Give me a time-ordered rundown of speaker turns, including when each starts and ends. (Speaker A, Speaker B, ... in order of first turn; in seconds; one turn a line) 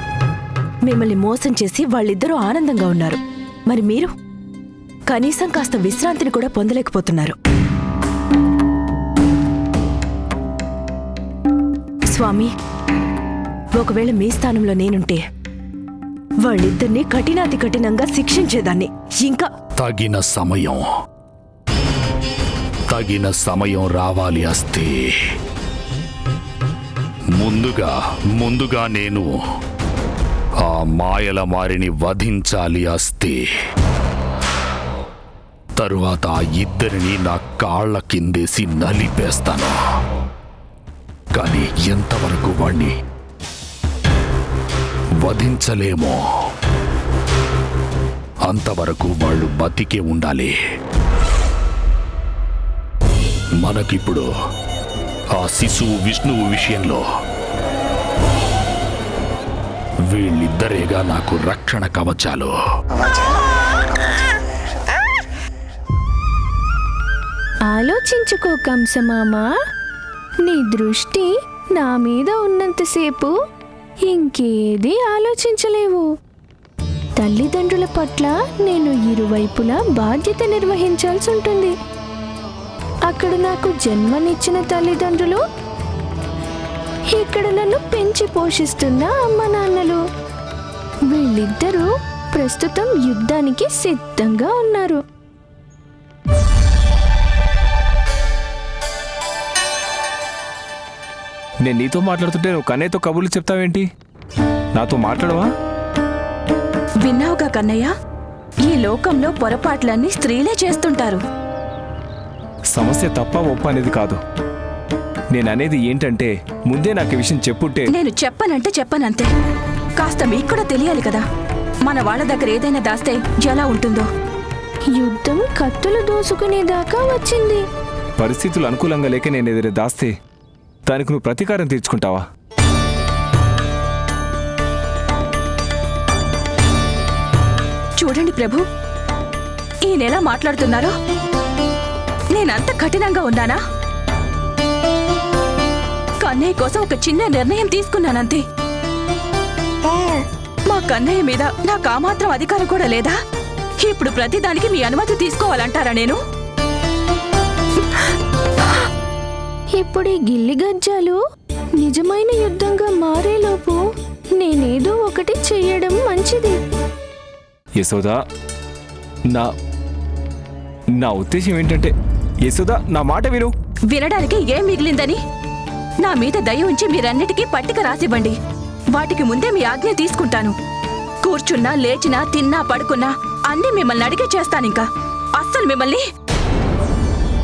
Speaker A: 0.8-4.1
Speaker A: 5.1-7.3
Speaker A: 12.1-12.5
Speaker A: 13.8-15.2
Speaker A: 16.4-19.5
Speaker B: 19.8-20.8
Speaker B: 22.9-25.2
Speaker B: 27.4-29.3
Speaker B: 30.6-33.4
Speaker B: 35.8-39.7
Speaker B: 41.3-42.9
Speaker B: 45.2-46.2
Speaker B: 48.5-50.5
Speaker B: 53.6-54.2
Speaker B: 55.4-57.0
Speaker B: 60.1-62.5
Speaker C: 67.7-69.5
Speaker C: 70.4-73.3
Speaker C: 74.1-76.1
Speaker C: 77.2-81.7
Speaker C: 83.1-85.4
Speaker C: 87.1-90.0
Speaker C: 91.1-95.0
Speaker D: 101.6-103.9
Speaker D: 104.8-105.5
Speaker E: 107.0-107.9
Speaker E: 108.7-111.2
Speaker D: 112.7-114.2
Speaker D: 115.3-117.9
Speaker E: 117.9-119.3
Speaker E: 120.0-121.2
Speaker E: 121.8-124.1
Speaker C: 125.0-127.6
Speaker D: 128.2-130.1
Speaker D: 130.9-132.2
Speaker E: 138.0-138.6
Speaker E: 139.8-140.9
Speaker E: 142.3-143.6
Speaker E: 146.2-148.4
Speaker E: 150.7-153.1
Speaker E: 153.8-156.2
Speaker C: 159.8-161.2
Speaker C: 161.8-163.8
Speaker C: 164.4-166.6
Speaker D: 167.8-168.2
Speaker D: 170.9-171.9
Speaker D: 172.4-173.5
Speaker E: 173.9-175.2
Speaker E: 176.0-178.3
Speaker E: 178.9-180.5
Speaker E: 181.2-184.9
Speaker E: 185.4-186.0